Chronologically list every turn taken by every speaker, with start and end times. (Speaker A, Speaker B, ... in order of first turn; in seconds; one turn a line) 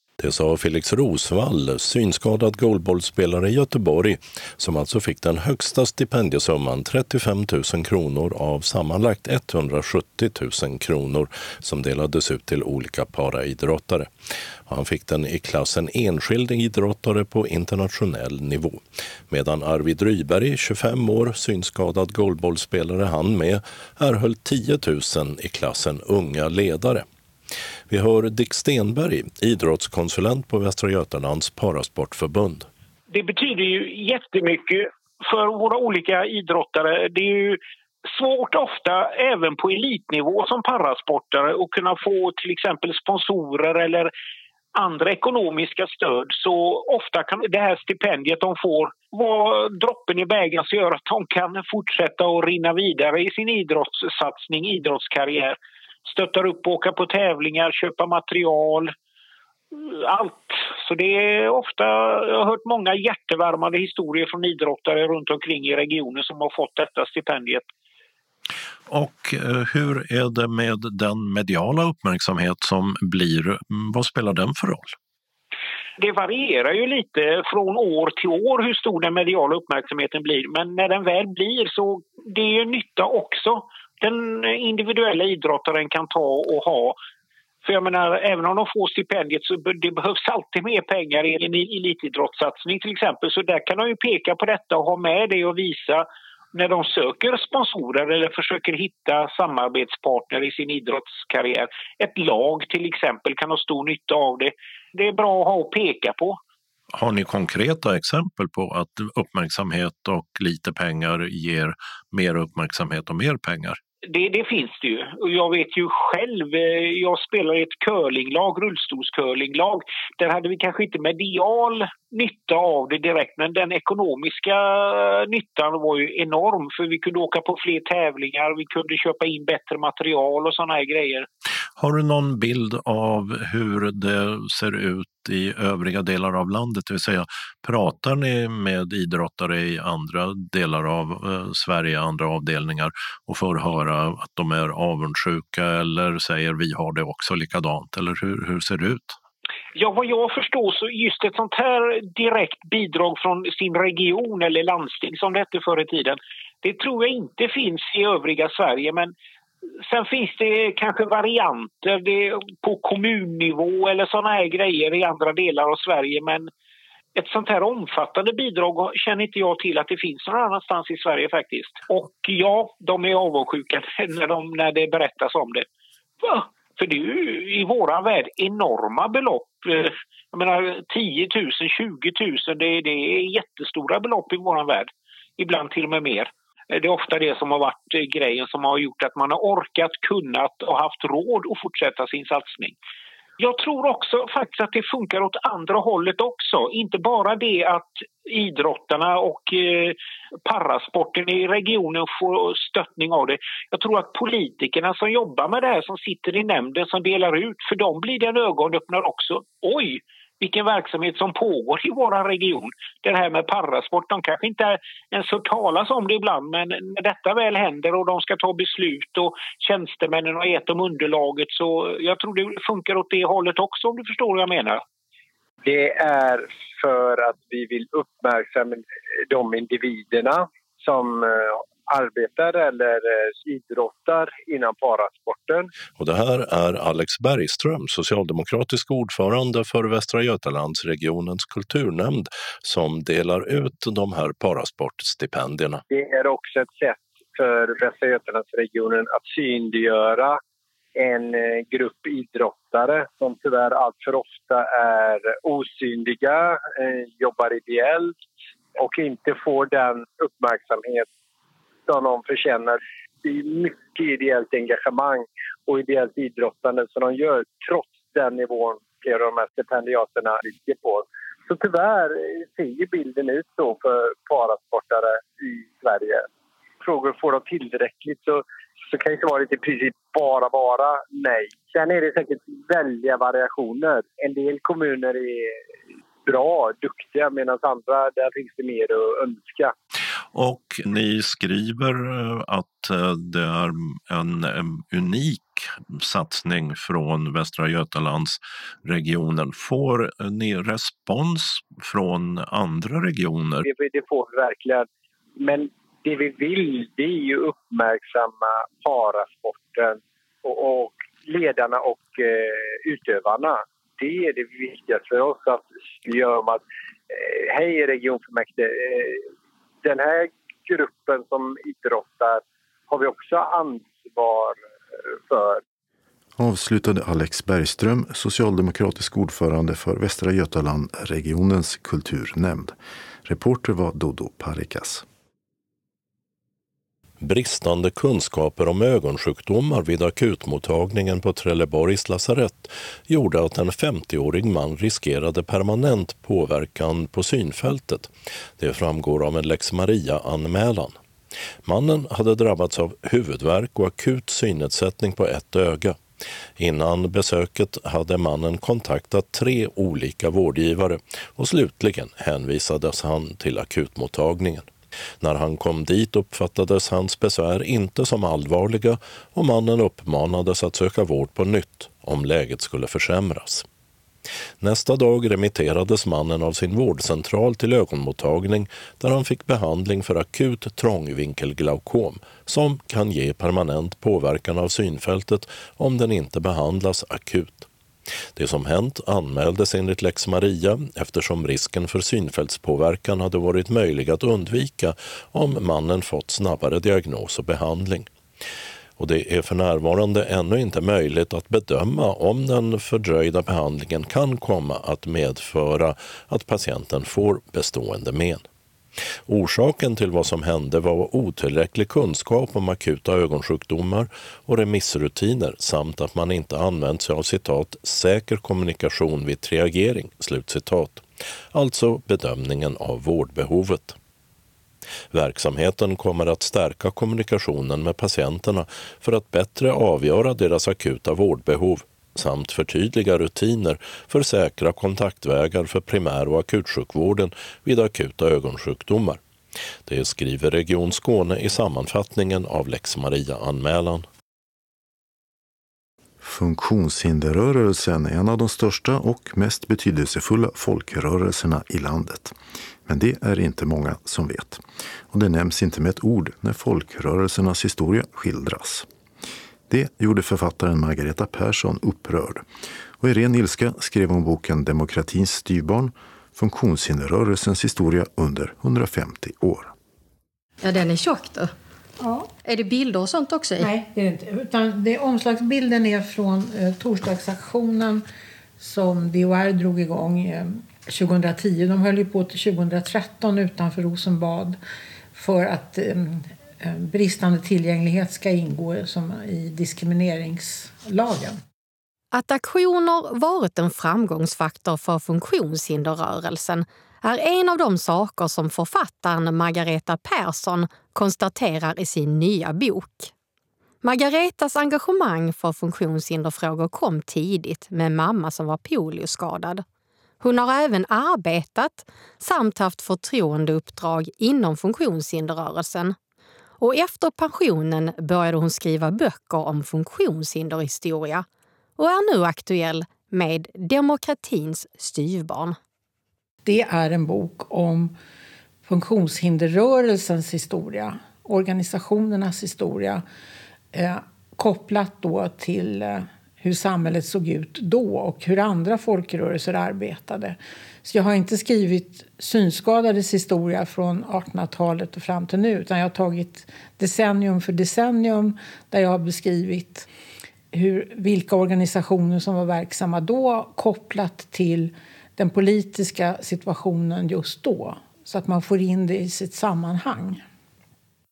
Speaker A: 0.2-14.1
Speaker A: 14.7-27.0
Speaker A: 27.9-32.7
Speaker B: 33.1-44.1
Speaker B: 44.8-58.9
Speaker B: 59.7-67.7
Speaker A: 68.9-75.0
Speaker B: 76.0-87.0
Speaker B: 87.6-106.4
Speaker A: 106.9-113.8
Speaker B: 114.1-131.3
Speaker A: 131.8-149.2
Speaker B: 149.8-159.1
Speaker B: 159.9-166.5
Speaker B: 167.2-175.7
Speaker B: 176.2-192.8
Speaker B: 193.4-224.8
Speaker C: 225.6-235.7
Speaker A: 236.0-245.8
Speaker C: 245.9-250.4
Speaker C: 251.0-258.2
Speaker C: 258.8-261.1
Speaker C: 261.9-276.2
Speaker C: 276.8-285.5
Speaker C: 286.3-289.7
Speaker A: 290.3-303.7
Speaker C: 303.6-304.9
Speaker C: 305.4-319.2
Speaker C: 319.8-325.6
Speaker D: 326.4-335.1
Speaker A: 337.2-351.0
Speaker A: 351.7-356.0
Speaker A: 356.6-364.7
Speaker A: 365.2-373.6
Speaker A: 374.6-387.7
Speaker A: 388.4-398.1
Speaker A: 399.0-408.4
Speaker A: 409.3-424.0
Speaker A: 425.1-439.2
Speaker A: 439.9-444.1
Speaker D: 446.2-458.9
Speaker D: 459.7-462.4
Speaker D: 463.0-469.7
Speaker E: 470.6-471.5
Speaker F: 472.0-472.3
Speaker E: 472.4-473.7
Speaker F: 473.6-478.0
Speaker F: 478.6-484.6
Speaker F: 485.1-491.4
Speaker E: 492.1-503.1
Speaker E: 503.8-509.6
Speaker E: 510.2-516.0
Speaker E: 516.6-521.2
Speaker E: 521.8-525.6
Speaker F: 526.5-527.9
Speaker F: 528.7-533.0
Speaker F: 533.7-549.9
Speaker F: 550.5-560.2